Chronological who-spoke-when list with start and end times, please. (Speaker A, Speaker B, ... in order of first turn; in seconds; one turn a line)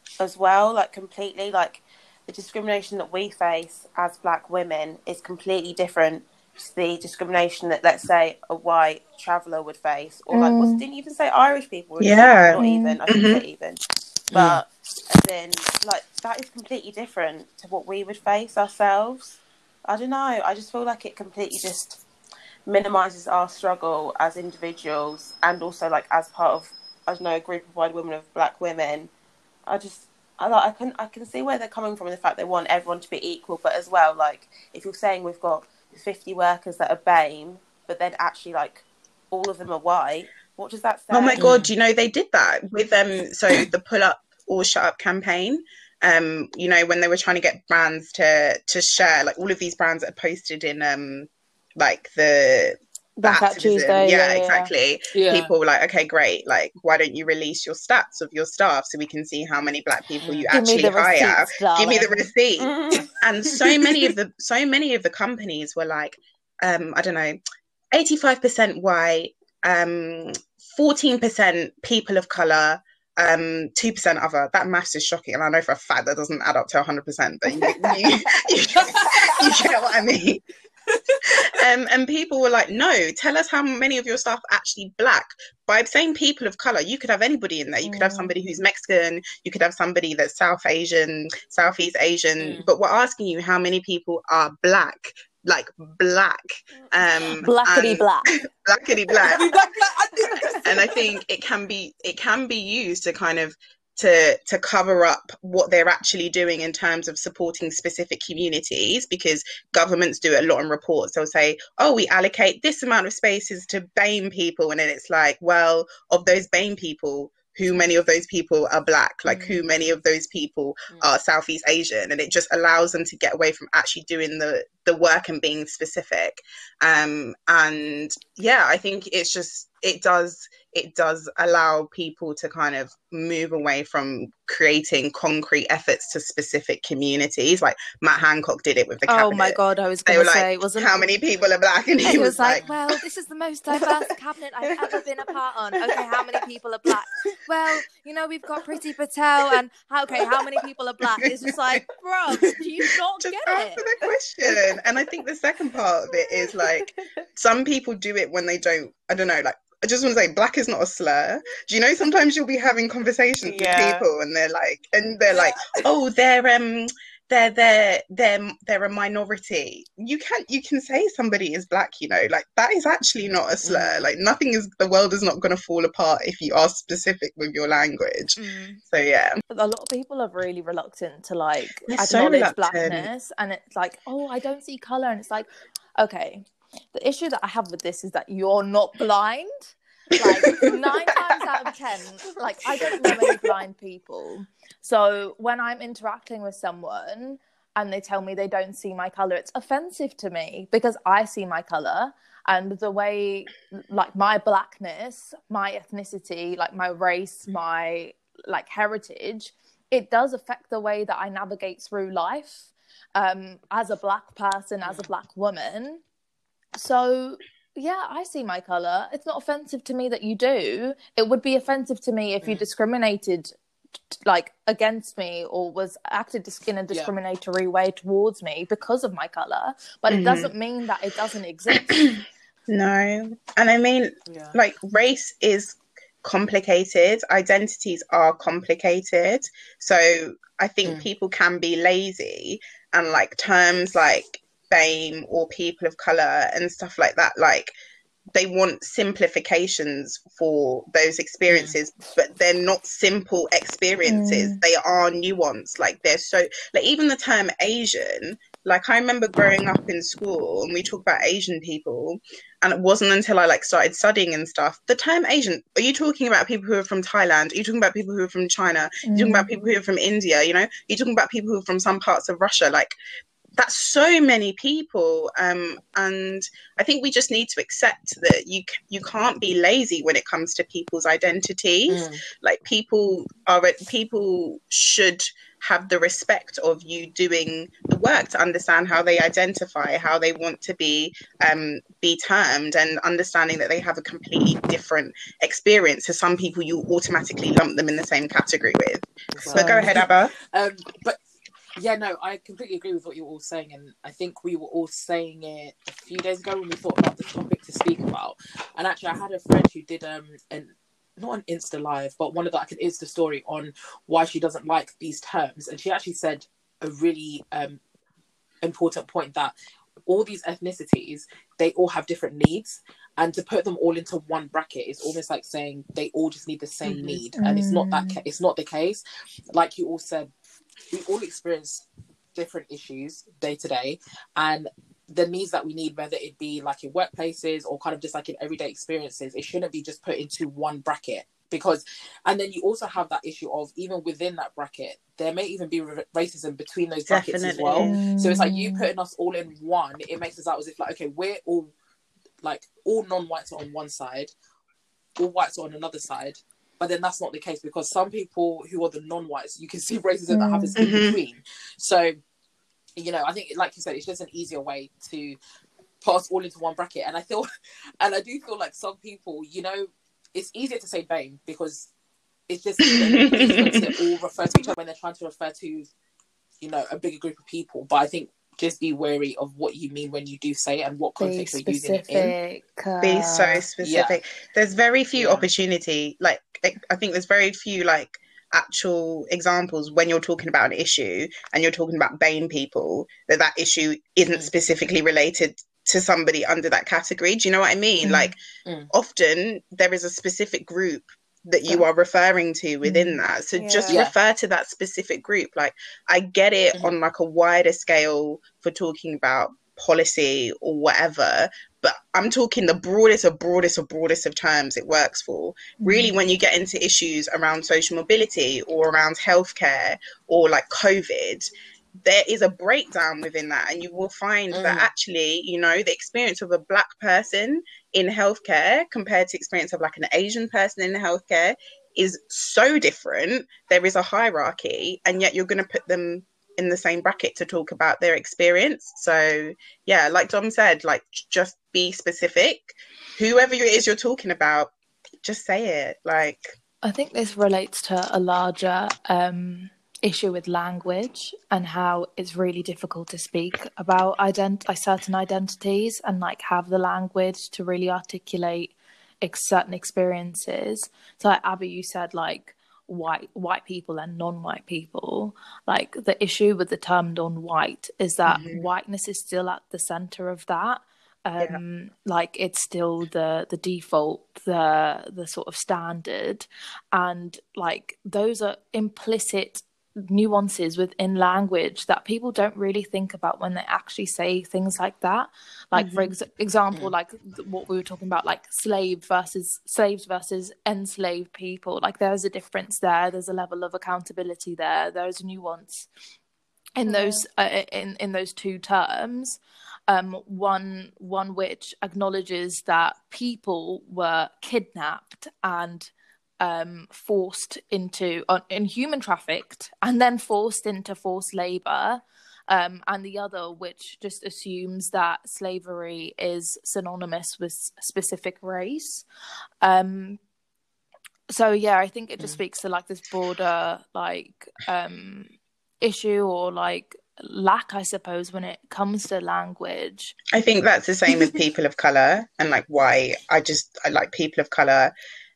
Speaker A: 0.2-13.8
Speaker B: 10.3-10.8
Speaker C: 12.0-13.4
Speaker B: 12.6-13.0
Speaker D: 14.3-14.6
Speaker A: 14.3-22.0
Speaker A: 22.6-29.1
Speaker A: 29.7-41.4
Speaker C: 41.1-67.4
Speaker D: 41.4-41.7
Speaker B: 53.2-54.7
Speaker D: 55.1-55.5
Speaker D: 60.2-60.5
Speaker B: 60.5-62.3
Speaker A: 62.6-63.1
Speaker D: 63.5-64.1
Speaker C: 67.9-80.4
Speaker D: 78.8-79.1
Speaker C: 81.4-99.4
Speaker B: 87.8-88.3
Speaker D: 92.4-92.7
Speaker B: 97.4-98.3
Speaker D: 99.2-100.9
Speaker C: 100.6-142.7
Speaker B: 119.3-119.6
Speaker B: 139.1-141.0
Speaker B: 142.0-153.8
Speaker A: 144.6-146.4
Speaker C: 151.2-151.8
Speaker C: 153.2-179.4
Speaker A: 154.0-154.5
Speaker A: 156.3-156.9
Speaker A: 163.4-164.1
Speaker A: 165.3-165.6
Speaker D: 173.6-174.1
Speaker B: 178.4-178.8
Speaker B: 179.5-216.0
Speaker C: 181.9-183.1
Speaker C: 190.2-190.7
Speaker C: 193.0-193.4
Speaker D: 214.8-215.1
Speaker B: 216.8-223.5
Speaker D: 222.4-222.7
Speaker B: 224.1-232.1
Speaker D: 226.9-227.1
Speaker C: 230.1-230.5
Speaker C: 231.7-232.2
Speaker C: 232.7-247.7
Speaker D: 234.3-234.6
Speaker C: 248.3-272.9
Speaker D: 251.5-251.8
Speaker B: 254.1-254.6
Speaker B: 269.1-269.5
Speaker C: 273.6-300.3
Speaker D: 281.9-282.2
Speaker D: 299.3-301.2
Speaker B: 299.5-300.0
Speaker D: 301.8-317.8
Speaker D: 318.6-319.5
Speaker D: 320.1-329.0
Speaker C: 326.9-327.2
Speaker B: 327.4-328.2
Speaker D: 329.5-330.3
Speaker D: 330.9-351.7
Speaker C: 347.1-348.0
Speaker B: 347.8-348.9
Speaker D: 352.4-354.3
Speaker D: 355.2-362.2
Speaker B: 360.3-360.7
Speaker C: 360.8-361.2
Speaker D: 362.9-365.4
Speaker D: 366.0-367.5
Speaker D: 368.0-371.9
Speaker D: 372.5-375.9
Speaker C: 372.8-373.8
Speaker D: 376.6-382.3
Speaker B: 381.2-383.6
Speaker C: 383.0-398.4
Speaker D: 383.8-384.2
Speaker D: 385.1-385.5
Speaker B: 398.0-398.3
Speaker D: 398.6-398.9
Speaker C: 398.9-421.5
Speaker B: 402.8-403.2
Speaker A: 403.5-404.0
Speaker B: 415.8-416.2
Speaker C: 422.0-444.7
Speaker D: 424.5-424.9
Speaker C: 445.2-446.6
Speaker B: 446.8-495.9
Speaker C: 468.3-468.6
Speaker C: 485.7-486.1
Speaker B: 496.8-519.0
Speaker A: 496.9-497.2
Speaker B: 519.6-520.2
Speaker B: 521.3-530.1
Speaker C: 530.3-534.9